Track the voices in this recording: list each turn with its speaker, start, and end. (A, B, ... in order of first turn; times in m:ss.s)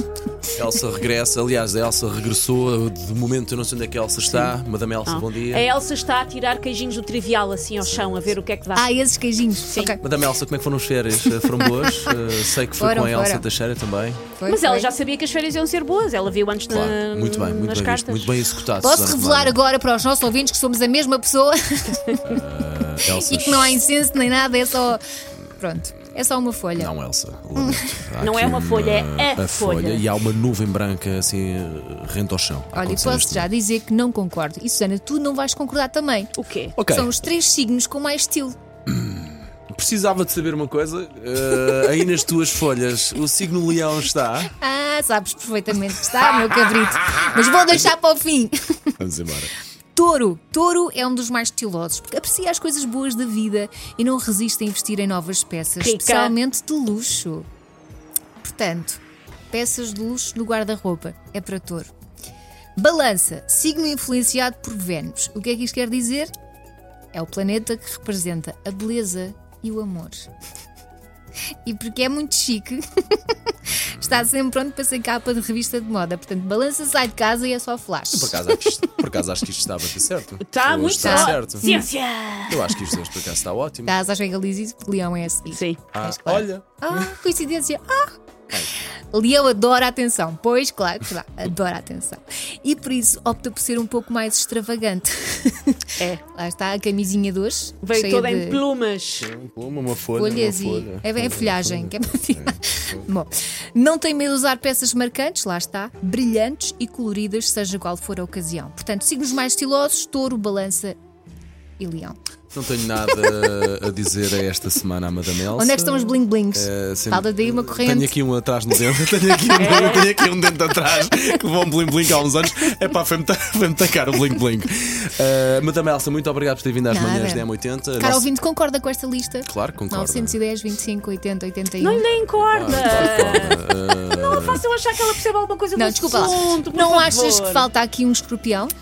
0:00.5-0:05.7 A
0:05.1-0:08.9 B
0:08.8-0:10.0 C
0:09.7-0:10.0 B
0:10.0-0:14.2 A
0:11.4-0:12.2 C
0:12.8-0:13.5 C
0:14.4-0:14.9 C
0:14.4-0:18.4 B
0:16.7-0:19.6 A
0:18.8-0:22.4 C
0:22.2-0:23.8 A
0:23.0-0:25.0 C
0:25.6-0:26.9 C
0:26.8-0:33.5 A
0:27.6-0:28.0 C
0:28.2-0:30.0 B
0:32.7-0:38.6 C
0:36.4-0:36.7 B
0:36.8-0:37.1 A
0:38.9-0:44.5 A
0:44.6-0:49.0 C
0:49.0-0:49.5 A
0:49.9-0:57.4 C
0:55.8-0:56.4 B
0:58.4-1:01.9 C
1:02.8-1:06.3 C
1:07.1-1:10.3 C
1:11.6-1:18.5 C
1:13.9-1:14.2 A
1:18.1-1:21.8 A
1:20.4-1:22.8 B
1:21.0-1:21.9 C
1:22.5-1:24.0 A
1:23.9-1:28.2 C
1:25.5-1:25.8 B
1:25.9-1:27.2 A
1:29.1-1:38.6 C
1:37.8-1:39.3 B
1:39.2-1:43.0 A
1:40.2-1:51.0 C
1:51.8-1:52.2 C
1:52.5-2:08.3 A
1:55.5-1:58.1 C
1:59.6-2:00.2 B
2:06.9-2:12.1 C
2:09.5-2:10.4 A
2:11.8-2:17.7 B
2:12.5-2:14.6 A
2:15.8-2:18.7 C